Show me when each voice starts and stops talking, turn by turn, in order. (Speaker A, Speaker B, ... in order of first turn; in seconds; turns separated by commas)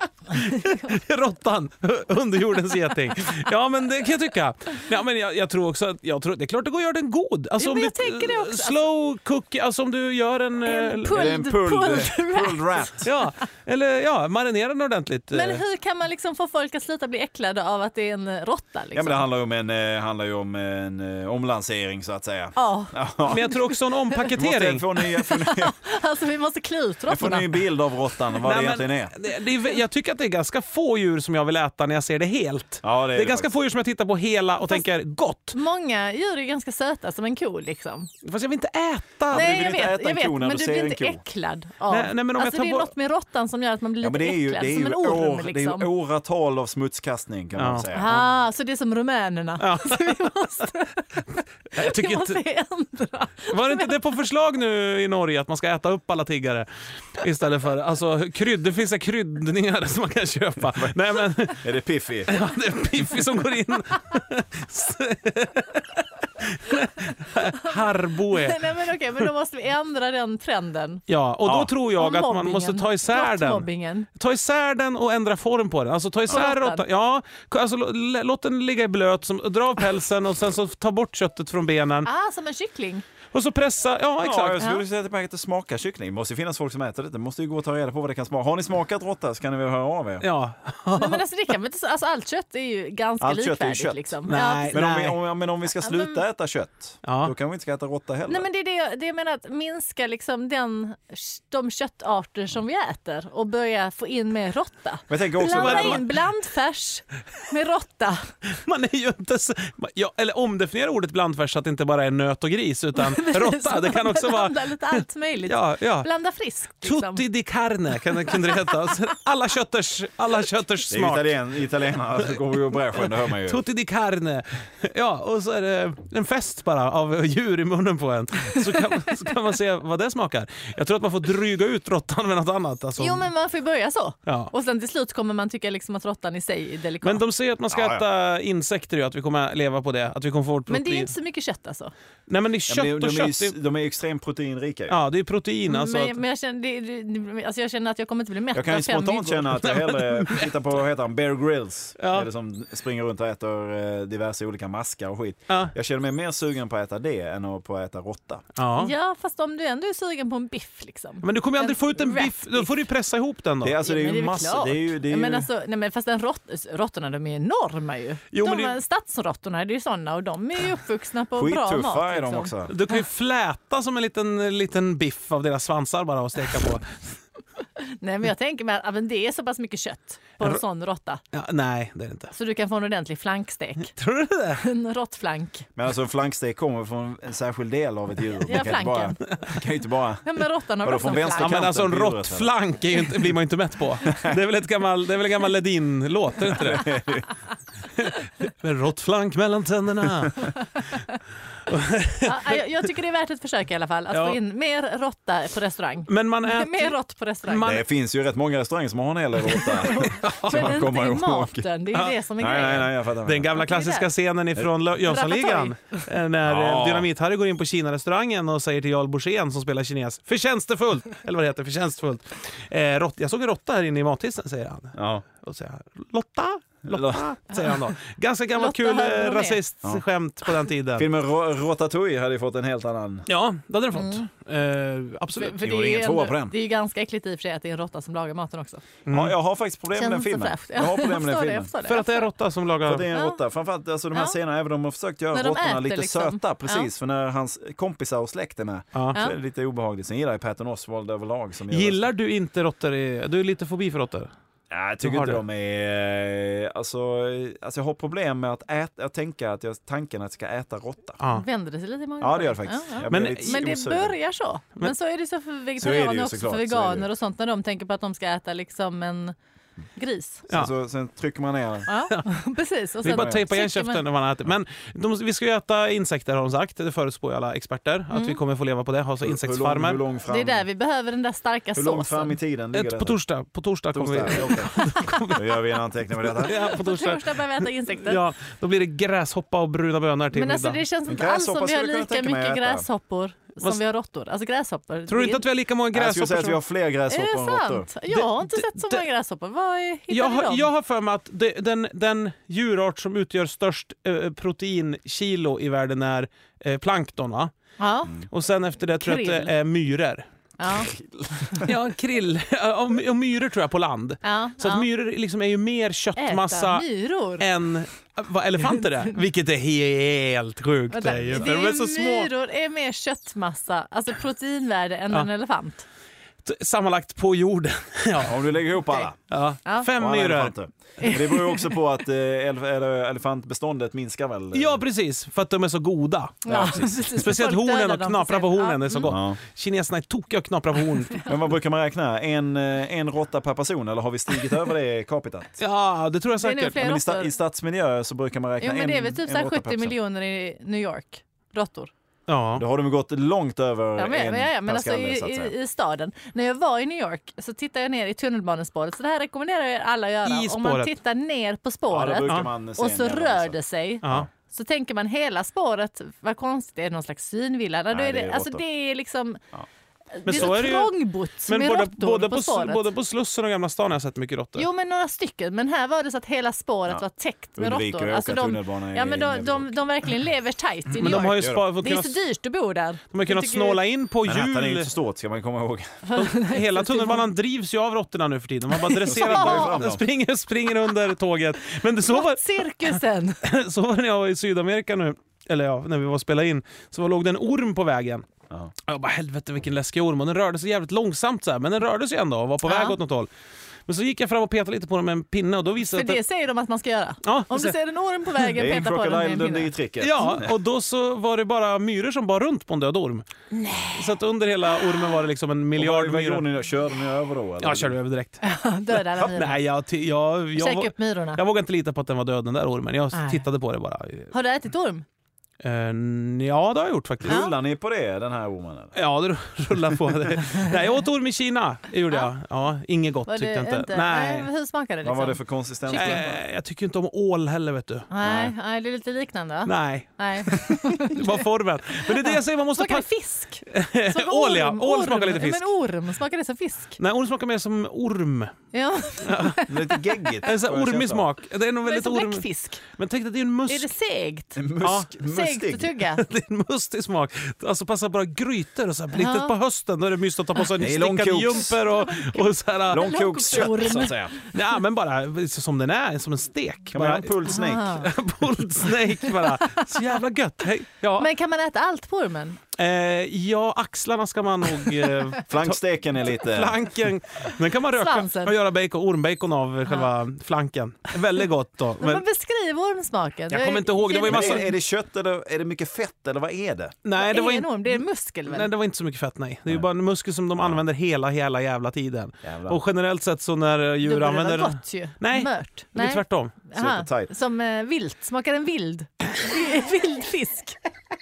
Speaker A: 0.3-11.4, Speaker B: 7.6-8.9, Speaker B: 10.7-13.1, Speaker C: 11.1-13.1, Speaker A: 13.0-15.6, Speaker B: 15.3-19.2, Speaker C: 18.9-23.6, Speaker B: 22.6-24.4, Speaker A: 23.3-24.9, Speaker C: 24.3-25.8, Speaker B: 25.0-27.6, Speaker C: 27.1-29.1, Speaker A: 28.4-35.6, Speaker C: 32.8-33.5, Speaker B: 35.5-38.1, Speaker A: 38.2-39.7, Speaker C: 39.3-41.2, Speaker B: 39.3-45.9, Speaker A: 41.9-42.9, Speaker C: 44.0-48.2, Speaker A: 47.6-48.2, Speaker B: 47.9-54.0, Speaker A: 49.6-50.5, Speaker A: 51.7-52.4, Speaker A: 53.5-61.6, Speaker C: 61.5-62.4, Speaker A: 62.3-68.6, Speaker B: 67.6-71.0, Speaker A: 71.1-82.1, Speaker C: 71.5-71.7, Speaker B: 72.0-74.1, Speaker B: 76.3-76.8, Speaker B: 82.0-83.0, Speaker A: 83.3-84.7, Speaker C: 84.2-90.3, Speaker A: 90.2-91.2, Speaker B: 91.0-94.8, Speaker C: 93.2-94.1, Speaker A: 94.3-95.2, Speaker C: 94.7-98.5, Speaker B: 95.8-96.2, Speaker A: 97.0-97.3, Speaker B: 98.3-108.3, Speaker C: 105.1-106.0, Speaker A: 105.4-106.2, Speaker A: 108.5-116.1, Speaker B: 113.0-117.2, Speaker A: 116.8-121.3, Speaker B: 118.3-118.9, Speaker C: 120.9-123.6, Speaker A: 123.0-133.3, Speaker B: 133.0-137.2, Speaker A: 137.0-141.1, Speaker C: 137.7-138.1, Speaker B: 140.7-141.9, Speaker A: 142.3-143.6, Speaker C: 142.7-145.0, Speaker A: 144.9-146.2, Speaker B: 145.7-149.6, Speaker C: 148.5-158.4, Speaker A: 149.6-150.5, Speaker A: 152.0-152.3, Speaker A: 158.6-158.9, Speaker B: 158.8-162.8, Speaker A: 161.2-163.8, Speaker C: 163.6-165.5, Speaker B: 163.8-172.5, Speaker A: 168.3-168.8, Speaker C: 171.4-172.8, Speaker A: 172.7-177.0, Speaker B: 177.8-181.2, Speaker A: 181.3-182.3, Speaker B: 182.3-183.9, Speaker A: 183.9-184.6, Speaker B: 184.6-185.7, Speaker C: 185.8-192.5, Speaker B: 188.5-189.6, Speaker B: 190.2-191.7, Speaker A: 191.4-197.0, Speaker C: 194.1-194.3, Speaker C: 196.4-197.3, Speaker A: 197.9-200.5, Speaker A: 201.7-202.6, Speaker B: 202.2-207.8, Speaker A: 204.1-204.4, Speaker A: 206.1-207.8, Speaker C: 207.6-211.7, Speaker A: 209.5-210.8, Speaker B: 209.7-212.9, Speaker A: 211.9-231.1, Speaker C: 212.4-213.5, Speaker B: 213.5-214.1, Speaker B: 215.1-216.0, Speaker C: 216.4-217.1, Speaker C: 224.9-225.2, Speaker C: 226.8-227.3, Speaker B: 228.5-229.6, Speaker C: 231.0-233.3, Speaker A: 233.3-235.7, Speaker B: 234.0-234.2, Speaker B: 235.4-238.9, Speaker C: 235.6-236.6, Speaker A: 239.1-239.3, Speaker C: 239.1-241.7, Speaker B: 239.9-242.3, Speaker A: 241.8-243.1, Speaker C: 242.8-252.1, Speaker B: 243.1-243.4, Speaker B: 245.3-246.9, Speaker A: 251.7-254.3, Speaker C: 254.7-261.2, Speaker A: 255.0-255.4, Speaker A: 261.2-261.4, Speaker B: 261.3-269.4, Speaker C: 262.2-264.2, Speaker A: 263.1-263.6, Speaker C: 265.8-267.1, Speaker B: 270.0-270.5, Speaker C: 270.5-271.9, Speaker B: 271.9-274.0, Speaker A: 273.0-280.0, Speaker C: 273.1-273.4, Speaker B: 278.1-278.4, Speaker C: 279.2-280.6, Speaker B: 280.3-282.4, Speaker C: 281.8-283.2, Speaker A: 282.7-285.6, Speaker C: 283.9-286.8, Speaker A: 286.2-290.8, Speaker B: 286.4-288.2, Speaker B: 290.3-295.4, Speaker C: 291.1-292.9, Speaker A: 295.1-296.6, Speaker C: 295.9-297.9, Speaker B: 297.1-300.7, Speaker A: 298.1-299.0, Speaker A: 300.1-307.5, Speaker B: 307.8-308.2, Speaker A: 308.2-310.3, Speaker B: 309.0-309.5, Speaker B: 310.6-310.9, Speaker C: 310.8-311.7, Speaker A: 311.6-316.9, Speaker B: 314.2-314.9, Speaker B: 316.2-317.5, Speaker A: 317.4-322.3, Speaker B: 320.9-325.9, Speaker C: 321.1-321.4, Speaker A: 326.4-328.4, Speaker C: 328.2-329.2, Speaker A: 329.3-330.6, Speaker B: 329.7-329.9, Speaker C: 330.0-334.8, Speaker B: 331.0-331.8, Speaker A: 334.5-341.2, Speaker C: 336.5-336.9, Speaker B: 336.5-339.1, Speaker C: 339.1-339.4, Speaker C: 341.2-345.6, Speaker A: 345.6-346.9, Speaker B: 346.4-347.3, Speaker C: 346.8-349.9, Speaker B: 348.6-351.9, Speaker A: 352.3-352.6, Speaker C: 352.6-355.5, Speaker B: 354.0-369.4, Speaker A: 360.2-360.9, Speaker C: 361.9-364.3, Speaker A: 364.0-364.3, Speaker C: 367.9-368.6, Speaker B: 370.1-372.9, Speaker A: 370.2-370.9, Speaker A: 371.4-374.7, Speaker B: 374.6-383.8, Speaker C: 377.6-379.8, Speaker C: 380.9-381.7, Speaker A: 381.0-382.2, Speaker A: 383.1-384.9, Speaker C: 384.2-386.1, Speaker B: 386.1-387.3, Speaker A: 386.1-398.3, Speaker B: 388.8-389.8, Speaker C: 389.1-390.0, Speaker B: 392.1-393.4, Speaker A: 398.8-403.3, Speaker B: 402.6-403.0, Speaker A: 403.9-406.2, Speaker B: 405.9-409.7, Speaker A: 407.2-407.8, Speaker C: 408.5-410.6, Speaker A: 410.0-413.3, Speaker B: 413.5-414.2, Speaker A: 413.9-416.5, Speaker B: 414.8-415.1, Speaker C: 415.8-418.0, Speaker A: 417.6-418.4, Speaker B: 418.4-419.6, Speaker A: 419.0-424.3, Speaker B: 420.6-421.4, Speaker B: 423.1-423.4, Speaker B: 424.3-425.1, Speaker A: 425.6-427.5, Speaker C: 427.2-428.9, Speaker B: 427.3-427.5, Speaker A: 428.9-434.5, Speaker B: 433.3-436.2, Speaker C: 435.0-436.4, Speaker A: 435.9-438.1, Speaker B: 438.1-441.4, Speaker C: 438.2-438.5, Speaker A: 439.6-443.1, Speaker B: 442.1-447.0, Speaker A: 443.7-445.7, Speaker A: 447.0-448.6, Speaker B: 448.7-450.4, Speaker A: 449.2-449.6, Speaker C: 449.7-451.3, Speaker A: 450.4-453.9, Speaker B: 451.9-452.8, Speaker B: 453.7-454.7, Speaker C: 454.6-455.9, Speaker A: 454.8-455.1, Speaker B: 455.2-456.3, Speaker A: 456.1-463.9, Speaker B: 459.1-459.6, Speaker C: 460.8-461.8, Speaker C: 462.9-464.4, Speaker B: 462.9-464.5, Speaker A: 464.4-471.3, Speaker C: 466.9-468.1, Speaker B: 467.5-468.1, Speaker B: 469.2-469.9, Speaker B: 471.2-472.6, Speaker A: 472.8-482.2, Speaker C: 475.5-476.8, Speaker B: 478.0-478.6, Speaker B: 482.0-484.7, Speaker A: 483.5-484.7, Speaker C: 484.2-487.0, Speaker A: 487.0-496.5, Speaker B: 487.2-488.7, Speaker C: 492.4-492.8, Speaker B: 494.0-500.8, Speaker C: 496.7-497.3